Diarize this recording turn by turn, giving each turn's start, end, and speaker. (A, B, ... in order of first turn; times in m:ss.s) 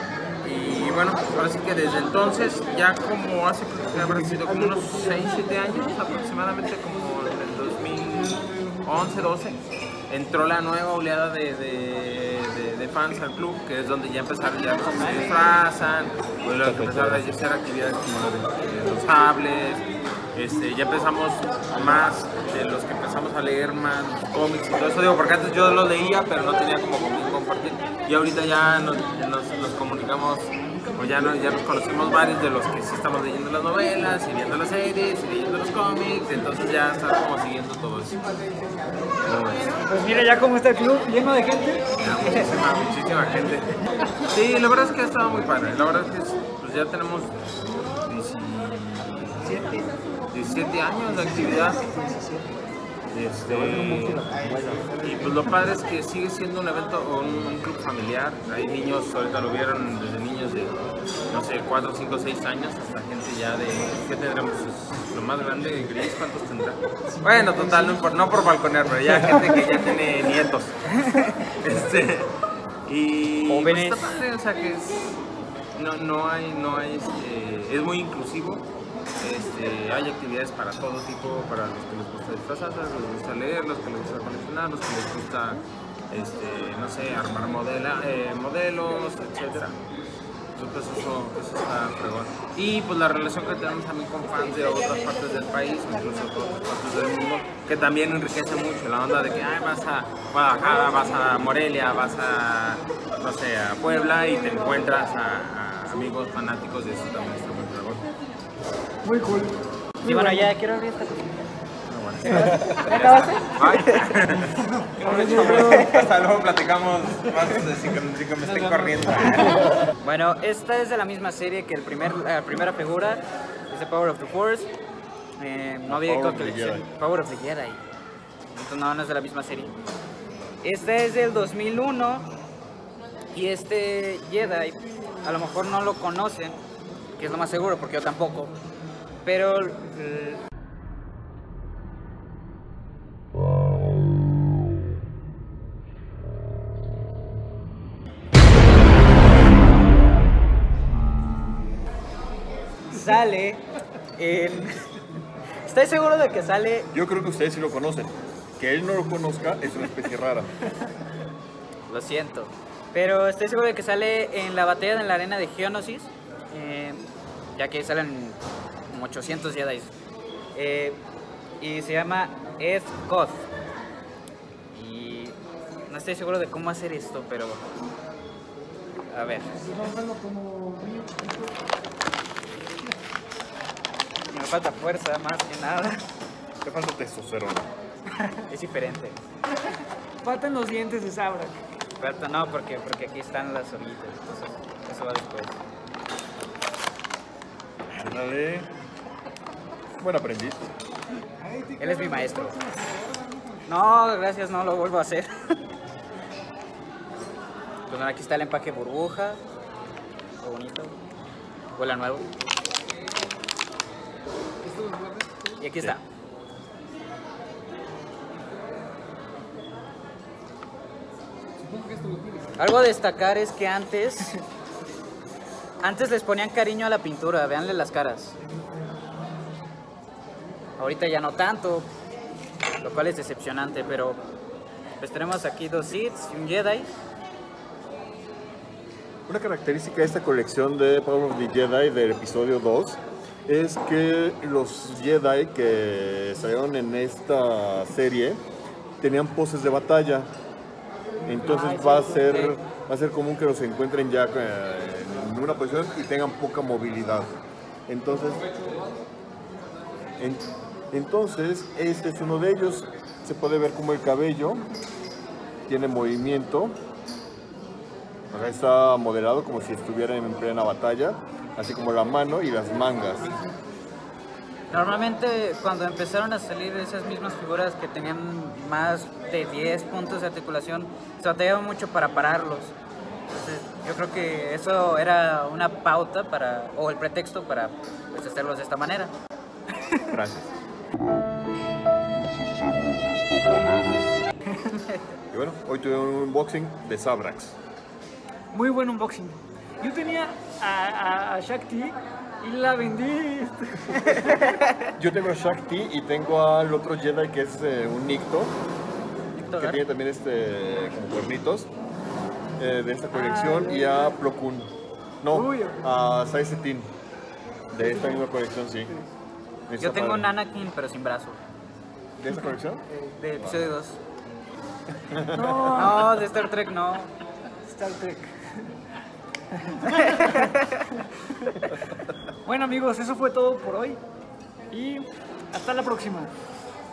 0:00.4-0:38.2 A
0:16.5-0:17.4 B
0:39.2-0:39.8 A
0:39.8-0:41.8 C
0:42.0-0:43.7 A
0:44.3-0:47.3 A
0:48.0-0:51.9 A
0:53.1-0:54.3 A
0:53.5-0:55.0 B
0:55.0-1:15.1 A
1:11.1-1:11.4 D
1:13.5-1:14.0 D
1:15.8-1:18.7 A
1:19.2-1:29.8 A
1:30.6-1:48.1 A
1:49.0-1:50.5 C
1:50.0-1:51.4 D
1:51.9-1:59.7 A
1:52.4-1:54.1 D
1:55.0-1:55.9 C
2:00.0-2:04.7 D
2:05.4-2:07.8 D
2:05.9-2:06.9 B
2:08.5-2:09.8 D
2:10.6-2:12.3 D
2:13.3-2:16.6 D
2:17.2-2:18.5 D
2:19.2-2:20.4 D
2:32.9-2:34.7 D
2:35.7-2:36.9 D
2:36.9-2:40.5 B
2:41.9-2:47.0 D
2:47.6-2:49.9 D
2:50.6-2:51.0 D
2:51.6-2:53.5 D
2:54.7-2:55.4 D
2:55.9-2:57.6 D
2:59.1-2:59.7 D
3:04.3-3:06.0 D
3:06.6-3:07.7 B
3:08.5-3:09.2 D
3:10.2-3:11.6 C
3:12.0-3:15.6 D
3:17.9-3:18.7 B
3:20.0-3:20.7 B
3:21.8-3:22.6 D
3:23.7-3:25.6 D
3:27.9-3:29.4 D
3:30.4-3:31.0 D
3:31.8-3:32.3 D
3:35.6-3:36.0 D
3:42.6-3:44.3 D
3:45.8-3:48.4 D
3:50.8-3:51.9 D
3:52.8-3:54.2 D
3:55.0-3:56.9 D
3:59.3-4:08.4 B
4:09.0-4:10.3 B
4:11.3-4:17.3 B
4:11.5-4:12.5 D
4:17.9-4:18.5 B
4:20.2-4:24.6 B
4:25.7-4:26.8 B
4:28.3-4:33.4 B
4:34.7-4:42.7 D
4:43.3-4:49.1 D
4:49.9-4:50.2 C
4:50.1-4:50.5 B
4:55.3-4:57.6 B
4:58.5-5:04.5 C
5:04.2-5:04.9 D
5:05.0-5:08.6 B
5:09.4-5:09.8 D
5:09.6-5:11.7 B
5:12.6-5:14.7 B
5:13.5-5:14.0 C
5:15.2-5:16.9 B
5:15.3-5:15.8 C
5:17.7-5:18.9 B
5:17.8-5:18.1 C
5:19.7-5:20.3 B
5:19.8-5:21.4 D
5:22.2-5:22.8 B
5:23.0-5:24.0 D
5:23.4-5:23.7 B
5:25.1-5:25.9 B
5:25.3-5:26.2 C
5:25.7-5:27.1 D
5:27.7-5:28.3 C
5:29.5-5:31.6 C
5:30.0-5:30.8 D
5:32.4-5:34.0 C
5:34.7-5:36.3 C